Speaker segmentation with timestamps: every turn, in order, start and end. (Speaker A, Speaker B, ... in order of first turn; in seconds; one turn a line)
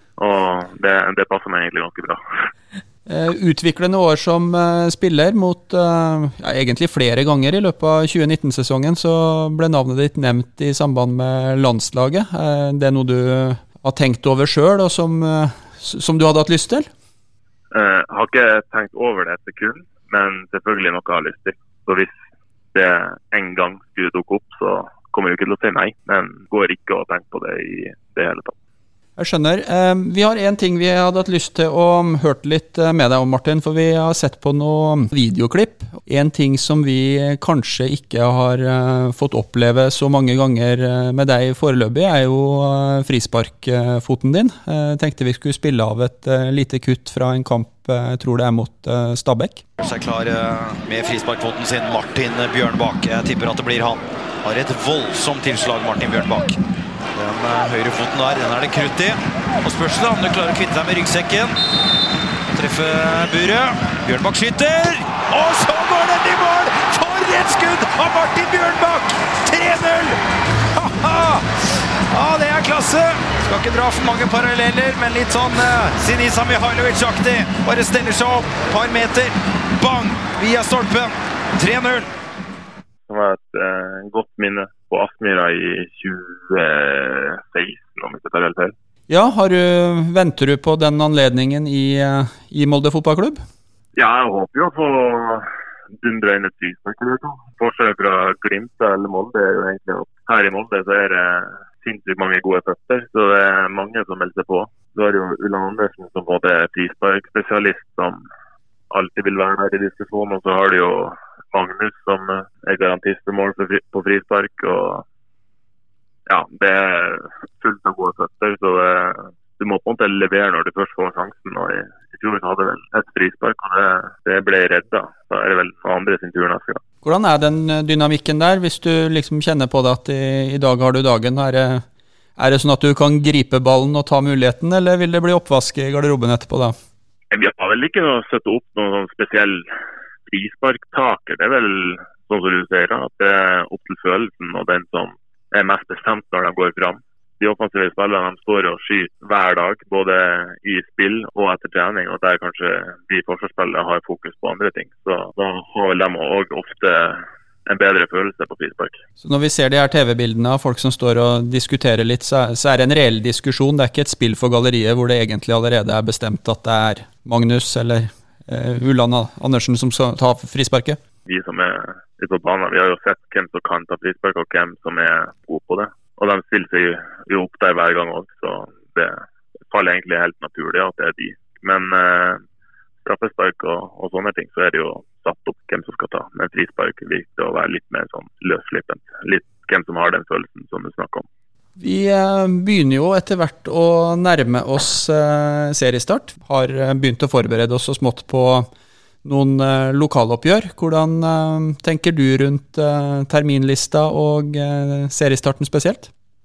Speaker A: 0.2-2.2
Speaker B: 3.1-16.9
Speaker A: 17.7-22.2
Speaker A: 22.7-28.6
Speaker B: 29.2-49.6
Speaker C: 49.8-56.6
Speaker C: 57.1-61.5
Speaker C: 62.5-70.2
Speaker C: 70.7-82.1
Speaker A: 83.1-88.7
Speaker B: 89.1-93.4
Speaker A: 94.0-108.2
Speaker A: 108.9-115.0
Speaker A: 116.3-126.8
Speaker B: 127.0-131.8
Speaker B: 132.4-136.8
Speaker A: 137.3-139.7
Speaker A: 140.3-159.0
Speaker B: 159.2-171.0
Speaker A: 171.3-182.4
Speaker A: 183.0-191.2
Speaker B: 191.8-198.7
Speaker B: 199.2-206.1